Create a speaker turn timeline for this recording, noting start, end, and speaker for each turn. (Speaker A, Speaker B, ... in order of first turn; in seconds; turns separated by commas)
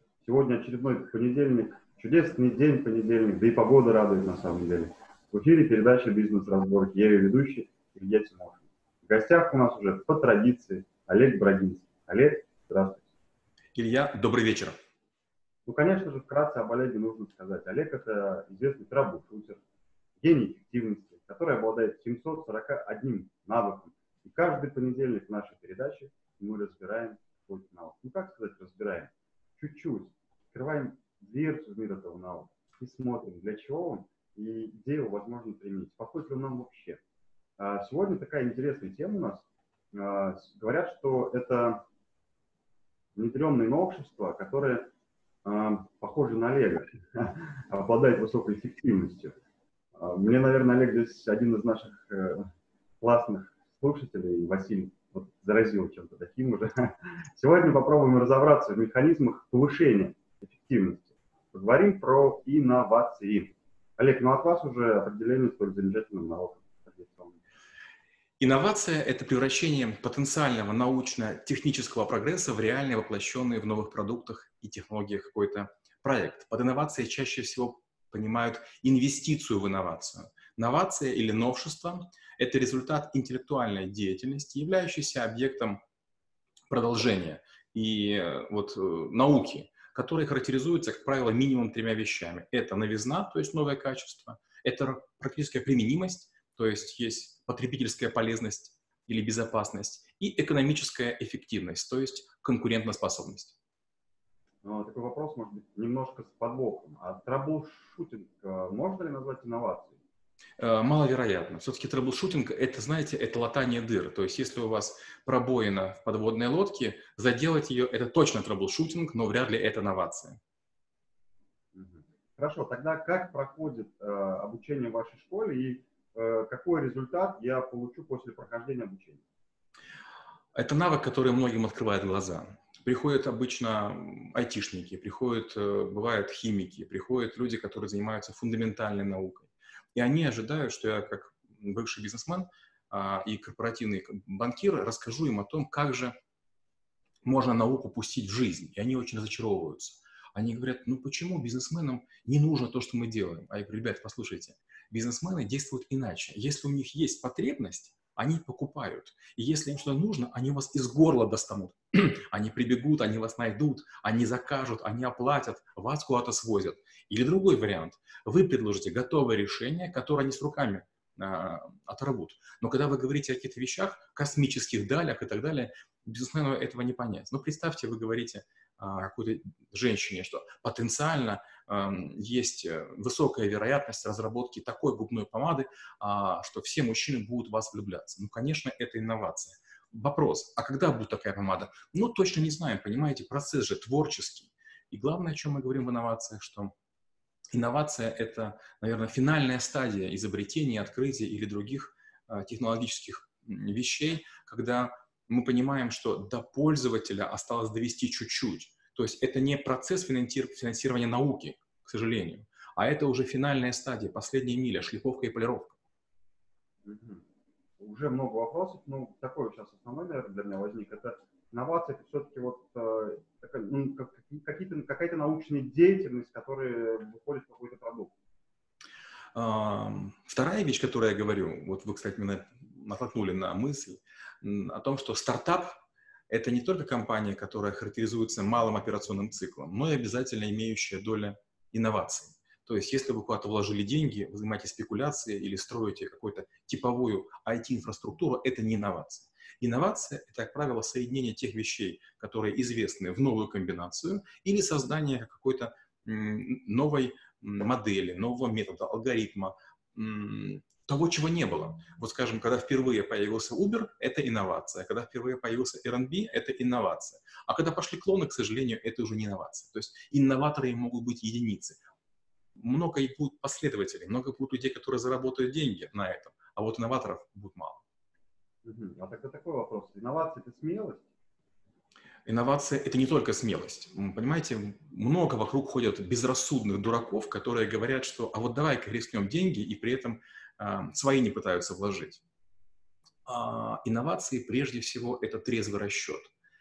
Speaker A: 0.2-13.0, Speaker B: 13.7-14.8, Speaker A: 15.7-19.6, Speaker A: 20.2-37.0, Speaker A: 37.6-41.8, Speaker A: 43.1-44.9, Speaker A: 45.4-49.4, Speaker A: 50.0-52.5, Speaker A: 53.0-67.4, Speaker B: 68.4-85.8, Speaker B: 86.7-103.5, Speaker A: 104.6-110.0, Speaker B: 110.6-120.4, Speaker A: 121.7-129.2, Speaker B: 130.5-146.1, Speaker B: 147.2-196.7, Speaker B: 197.5-215.8, Speaker A: 216.8-217.2, Speaker A: 217.8-228.1, Speaker B: 229.3-235.8, Speaker B: 236.3-271.8, Speaker B: 272.6-277.8, Speaker A: 278.6-281.1, Speaker B: 282.2-292.2, Speaker B: 293.2-296.3